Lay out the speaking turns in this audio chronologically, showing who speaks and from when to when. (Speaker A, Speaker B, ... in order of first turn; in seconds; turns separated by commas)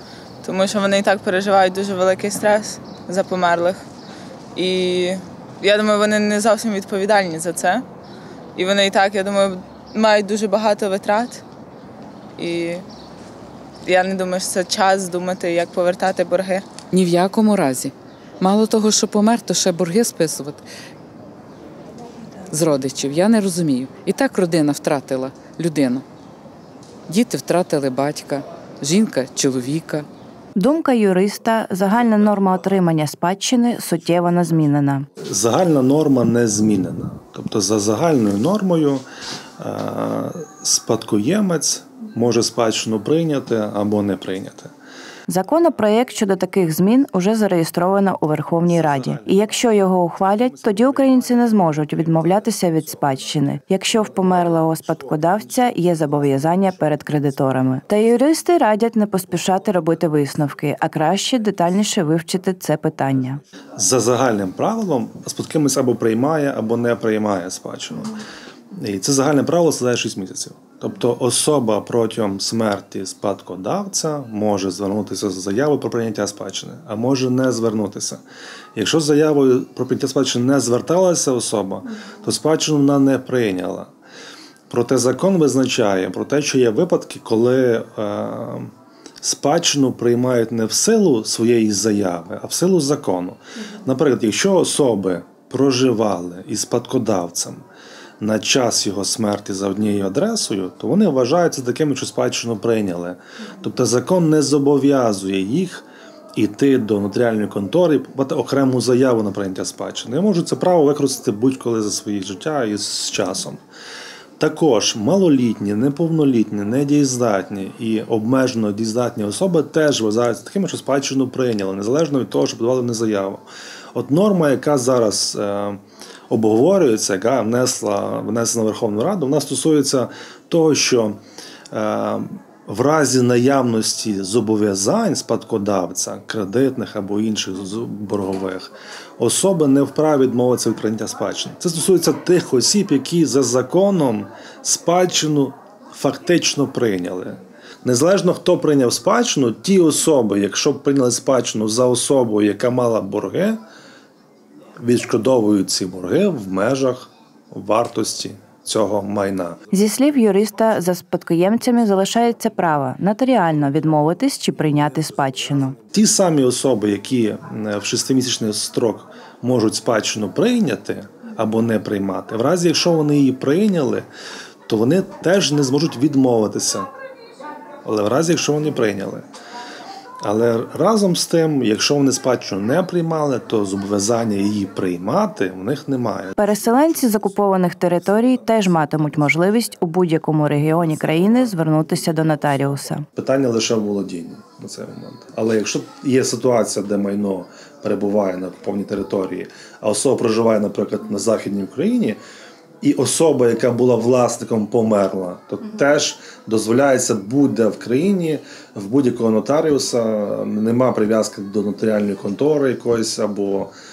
Speaker A: 0.4-3.8, Speaker A: 4.5-7.8, Speaker A: 8.6-11.4, Speaker A: 12.4-12.8, Speaker A: 13.8-16.7, Speaker B: 16.9-20.6, Speaker B: 22.5-26.0, Speaker B: 27.1-30.1, Speaker C: 30.6-35.1, Speaker D: 35.2-39.0, Speaker D: 39.6-44.7, Speaker C: 45.3-63.4, Speaker D: 49.2-49.7, Speaker D: 63.8-68.2, Speaker D: 68.7-78.2, Speaker D: 78.7-83.9, Speaker D: 84.7-97.6, Speaker D: 98.2-113.6, Speaker D: 114.4-131.2, Speaker D: 131.7-153.6, Speaker D: 154.8-159.6, Speaker C: 159.7-165.8, Speaker D: 165.9-174.1, Speaker D: 174.7-176.9, Speaker D: 177.8-179.2, Speaker D: 180.2-186.4, Speaker C: 186.4-193.1, Speaker D: 193.2-202.2, Speaker D: 202.8-213.7